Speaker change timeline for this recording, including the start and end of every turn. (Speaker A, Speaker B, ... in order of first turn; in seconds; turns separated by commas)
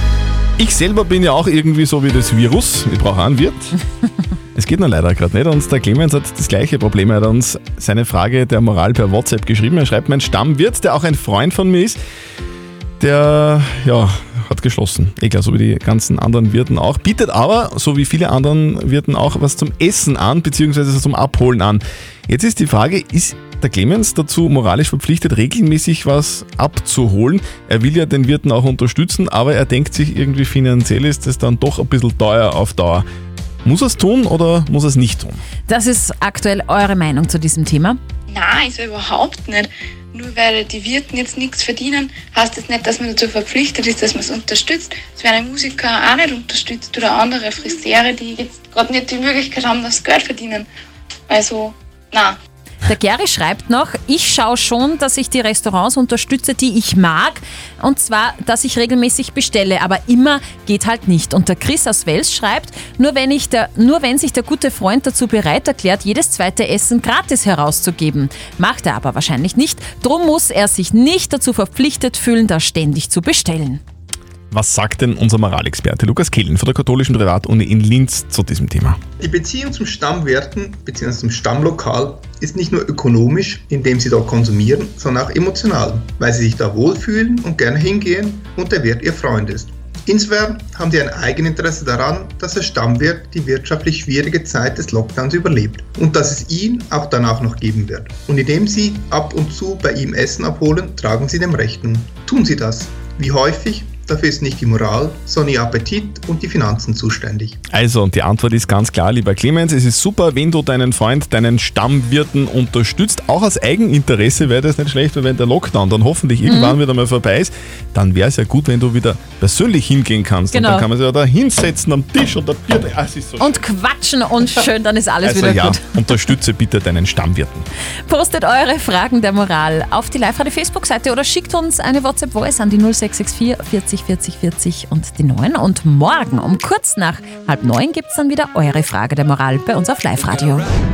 Speaker A: 0.6-3.7, Speaker A: 4.5-12.0, Speaker A: 13.0-33.0, Speaker A: 33.6-35.4, Speaker B: 35.7-38.0, Speaker C: 38.3-50.7, Speaker C: 51.3-52.4, Speaker B: 52.8-73.8, Speaker A: 74.5-79.0, Speaker D: 79.2-107.6, Speaker A: 107.7-123.6, Speaker B: 116.5-116.8, Speaker B: 120.5-120.9, Speaker B: 123.4-125.8, Speaker A: 125.2-127.7, Speaker B: 128.1-140.7